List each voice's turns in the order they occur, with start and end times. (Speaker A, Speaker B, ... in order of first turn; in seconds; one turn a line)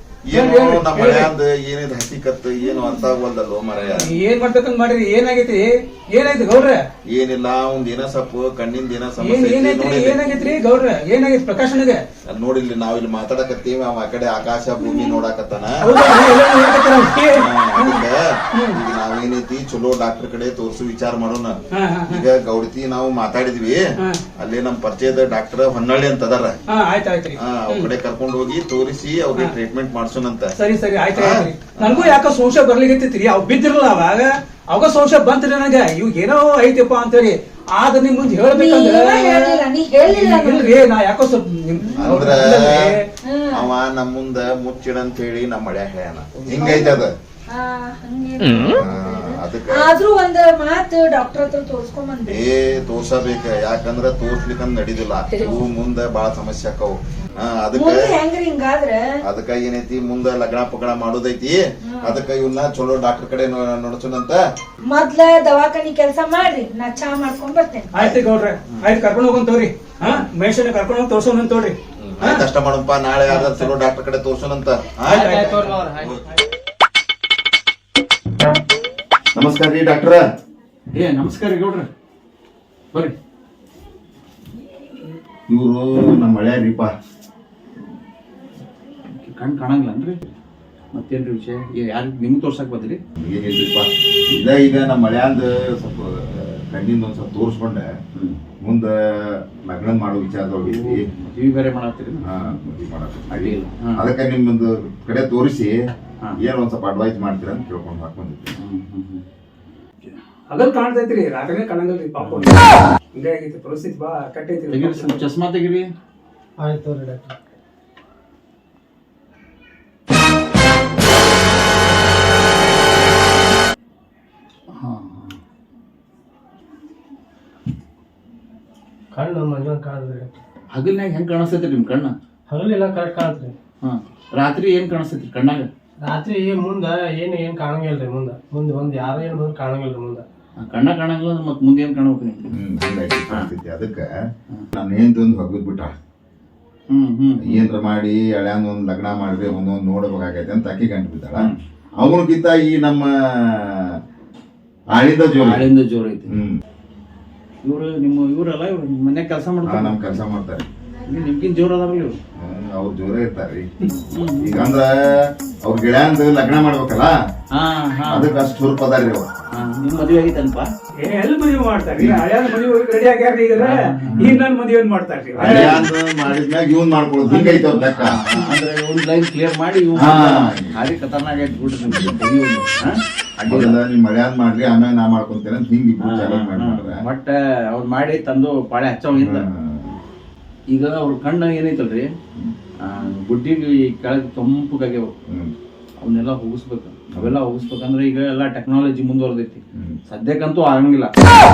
Speaker A: 0.3-4.1
Speaker B: 0.3-1.3
Speaker B: 3.9-6.8
Speaker A: 7.1-10.3
Speaker B: 9.2-12.0
Speaker A: 12.3-16.0
Speaker B: 15.8-18.0
Speaker A: 17.4-23.9
Speaker B: 21.7-22.2
Speaker A: 24.4-26.6
Speaker B: 26.7-27.9
Speaker A: 27.4-30.5
Speaker B: 30.6-43.1
Speaker A: 31.1-32.2
Speaker C: 38.5-40.8
Speaker C: 41.9-42.4
Speaker A: 41.9-42.7
Speaker C: 43.2-43.7
Speaker A: 43.5-47.1
Speaker C: 46.6-52.4
Speaker A: 48.7-49.9
Speaker A: 52.3-58.1
Speaker C: 57.7-59.0
Speaker A: 59.2-64.4
Speaker C: 61.9-62.2
Speaker C: 64.9-67.9
Speaker B: 67.9-72.4
Speaker A: 72.0-75.3
Speaker B: 73.3-73.7
Speaker B: 75.0-75.7
Speaker D: 75.0-76.2
Speaker A: 79.3-80.2
Speaker E: 80.9-81.9
Speaker A: 85.5-86.9
Speaker E: 89.2-90.3
Speaker E: 90.9-93.0
Speaker A: 93.2-97.9
Speaker A: 98.6-101.1
Speaker E: 100.6-102.6
Speaker A: 102.2-105.8
Speaker E: 103.3-104.0
Speaker A: 106.4-108.5
Speaker E: 108.6-109.2
Speaker B: 110.5-115.2
Speaker E: 112.2-112.6
Speaker E: 114.7-115.9
Speaker D: 116.6-117.3
Speaker E: 124.8-125.4
Speaker D: 129.1-130.4
Speaker E: 130.7-132.1
Speaker D: 132.5-133.5
Speaker E: 133.8-135.7
Speaker D: 136.0-140.2
Speaker E: 140.6-142.5
Speaker A: 142.5-144.1
Speaker A: 144.7-145.9
Speaker E: 146.9-147.7
Speaker A: 147.4-154.0
Speaker A: 154.9-155.7
Speaker E: 155.4-156.4
Speaker A: 156.3-156.6
Speaker E: 157.6-160.0
Speaker A: 159.6-160.6
Speaker E: 161.1-162.1
Speaker A: 162.4-163.7
Speaker E: 164.1-164.7
Speaker A: 164.4-167.1
Speaker E: 167.5-168.3
Speaker A: 168.1-169.3
Speaker E: 169.5-170.7
Speaker B: 171.0-175.8
Speaker A: 172.0-172.2
Speaker E: 173.6-174.3
Speaker A: 174.1-174.4
Speaker A: 175.3-178.4
Speaker E: 175.4-175.9
Speaker B: 177.3-177.8
Speaker E: 177.9-183.8
Speaker A: 179.9-180.8
Speaker A: 181.7-182.2
Speaker A: 183.4-187.0
Speaker E: 186.1-189.4
Speaker A: 189.1-189.9
Speaker E: 190.7-192.1
Speaker E: 192.8-195.1
Speaker E: 196.0-201.1